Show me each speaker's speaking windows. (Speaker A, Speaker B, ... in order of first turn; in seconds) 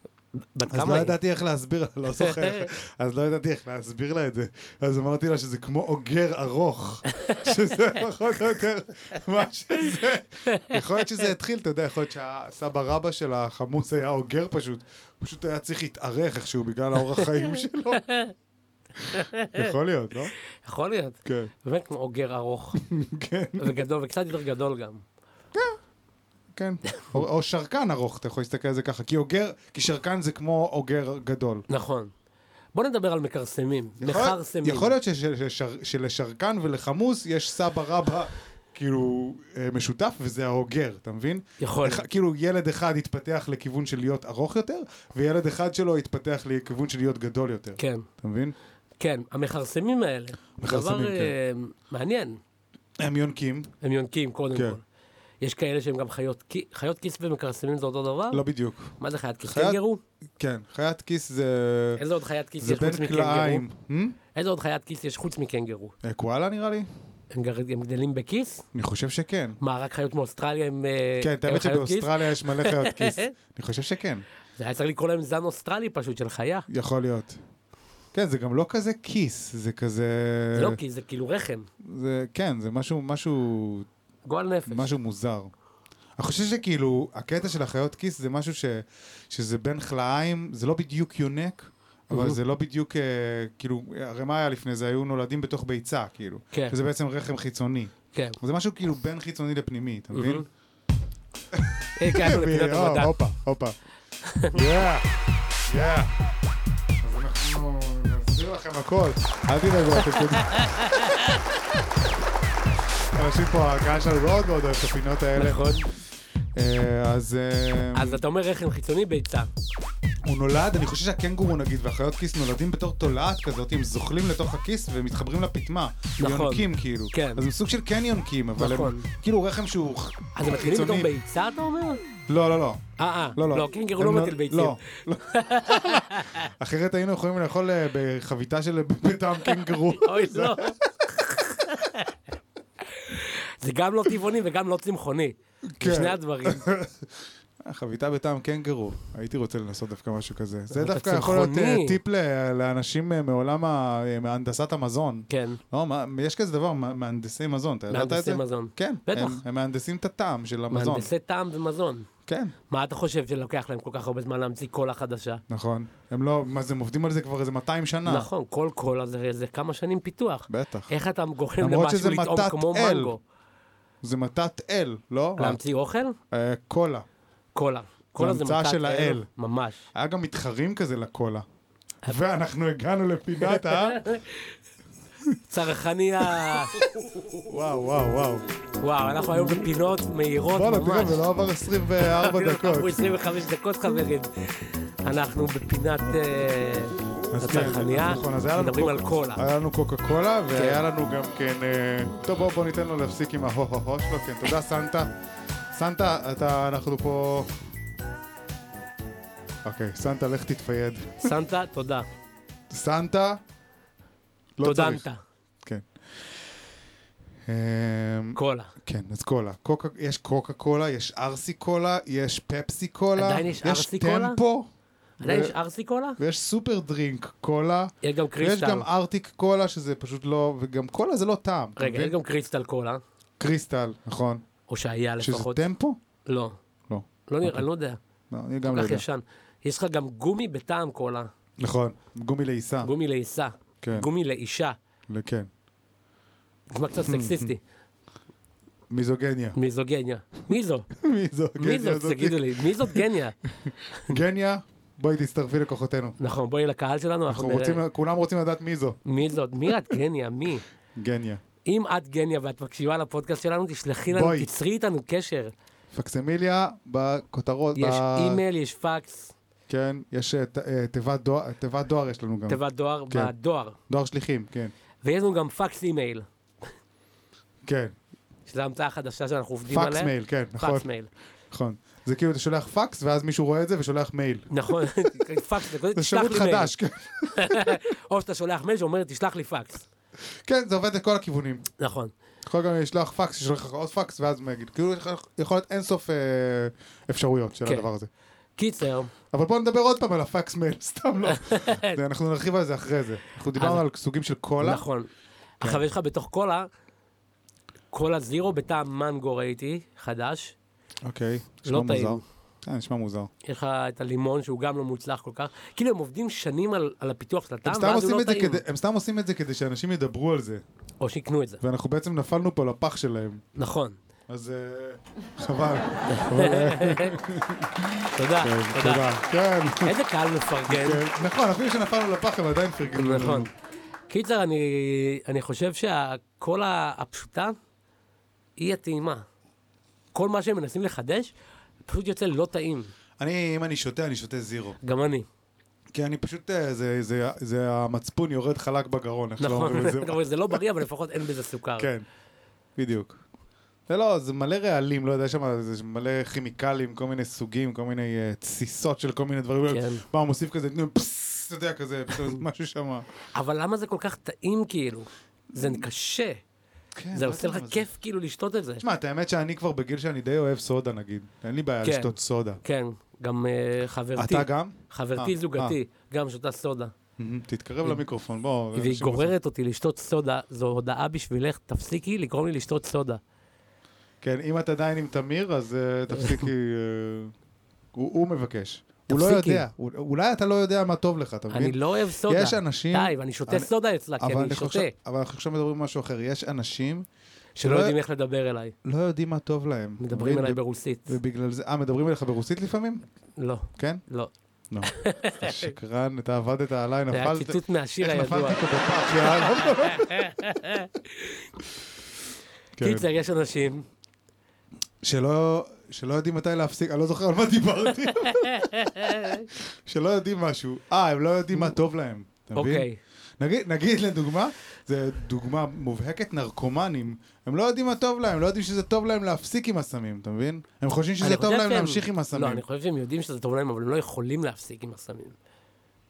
Speaker A: 0.4-1.2, 2.2-2.7, 7.1-7.5, 10.5-10.8, 18.0-18.3, 19.1-19.7, 20.6-22.8, 23.6-25.0, 31.7-32.1, 32.7-34.9, 41.6-42.0, 47.8-48.1, 49.0-52.4, 53.8-54.8, 55.4-58.4, 59.0-60.0, 62.0-63.6, 64.3-66.0, 67.3-68.7, 69.6-73.3, 74.6-76.7, 80.5-81.7, 84.3-84.9, 92.1-92.4, 98.1-98.4, 100.1-100.5, 102.0-103.2, 104.2-104.6, 110.0-111.4, 115.4-115.9, 118.0-119.5, 126.2-127.5, 128.6-129.1, 130.3-132.0, 133.0-136.5, 139.4-142.1, 142.9-146.7, 150.7-152.0, 155.3-155.6, 157.9-159.4, 160.7-162.1, 162.7-165.4, 168.1-173.2, 175.4-176.2, 177.6-179.8, 183.4-184.5, 185.5-186.8, 188.8-191.2, 192.0-199.5, 200.5-200.8, 211.2-212.1, 214.6-215.2, 218.3-218.7, 223.2-224.4, 225.2-226.2, 228.0-228.9, 231.8-233.0, 234.7-235.7, 236.3-236.6, 237.3-238.0, 238.7-241.3, 242.8-244.8, 246.7-247.6, 249.6-250.9, 251.6-253.4, 253.9-254.2, 256.2-257.8, 259.1-260.6, 261.6-265.5, 267.8-269.3, 272.5-273.8, 275.0-276.3, 278.5-281.1, 284.5-286.7, 287.3-289.9, 291.8-292.1, 298.6-299.1, 301.3-302.0, 303.6-303.8, 304.6-305.1, 305.6-306.7, 307.9-310.6, 311.7-312.2, 313.4-318.6, 321.0-321.6, 323.6-324.0, 326.1-327.2, 328.1-329.1, 329.8-331.1, 332.9-333.5, 334.1-337.6, 338.6-339.2, 340.1-341.3, 341.9-342.9, 344.8-345.3, 349.4-351.9, 359.7-360.0, 363.3-366.4, 367.1-368.8, 371.8-376.9, 378.8-383.2, 389.1-389.6, 391.5-394.9, 397.6-398.7, 400.0-401.2, 403.4-404.3, 404.8-405.7, 407.1-408.6, 409.2-411.5, 412.8-413.9, 418.0-419.5, 422.6-423.0, 431.2-435.4
Speaker B: 0.7-18.0, 19.0-20.3, 21.2-21.5, 22.8-23.8, 26.6-31.6, 34.0-48.5, 50.6-51.3, 53.0-53.7, 54.5-54.8, 58.3-59.8, 60.4-62.0, 62.6-64.2, 66.0-66.9, 68.7-69.6, 71.2-74.2, 76.7-77.4, 78.1-80.8, 81.8-83.9, 84.7-85.5, 86.2-100.5, 101.5-103.8, 104.5-105.1, 105.7-106.1, 107.0-111.3, 113.2-115.8, 116.5-118.2, 120.2-131.1, 132.3-132.8, 133.4-140.8, 145.8-161.1, 162.3-162.5, 165.5-168.3, 170.5-170.9, 171.6-173.1, 174.0-175.6, 176.3-177.1, 178.2-179.3, 179.9-181.4, 182.1-184.0, 186.3-188.4, 189.3-189.7, 190.5-193.1, 197.3-205.1, 205.7-207.6, 209.6-211.3, 212.7-213.4, 214.6-215.0, 215.6-215.9, 217.5-224.7, 225.2-225.6, 226.2-232.2, 233.4-234.4, 235.2-236.0, 236.9-237.7, 238.3-239.1, 241.6-242.9, 243.8-244.1, 245.1-245.5, 247.0-247.5, 248.9-249.6, 250.9-256.2, 257.3-259.0, 259.7-259.9, 261.0-261.4, 264.1-264.5, 265.9-268.4, 269.7-273.3, 273.9-274.7, 277.6-277.9, 279.7-280.9, 281.5-284.5, 285.9-287.8, 290.3-291.6, 292.4-298.1, 299.3-304.9, 311.1-313.3, 317.6-320.6, 321.6-323.4, 324.3-329.9, 330.7-333.5, 343.2-344.8, 345.9-350.6, 351.8-352.1, 352.8-353.2, 353.9-363.1, 365.6-365.8, 366.9-367.9, 368.8-372.6, 374.2-375.8, 377.2-379.3, 384.2-387.3, 387.9-397.1, 397.6-398.0, 398.8-403.0, 403.8-404.0, 404.7-410.4, 412.8-413.1, 415.0-422.9, 423.4-432.6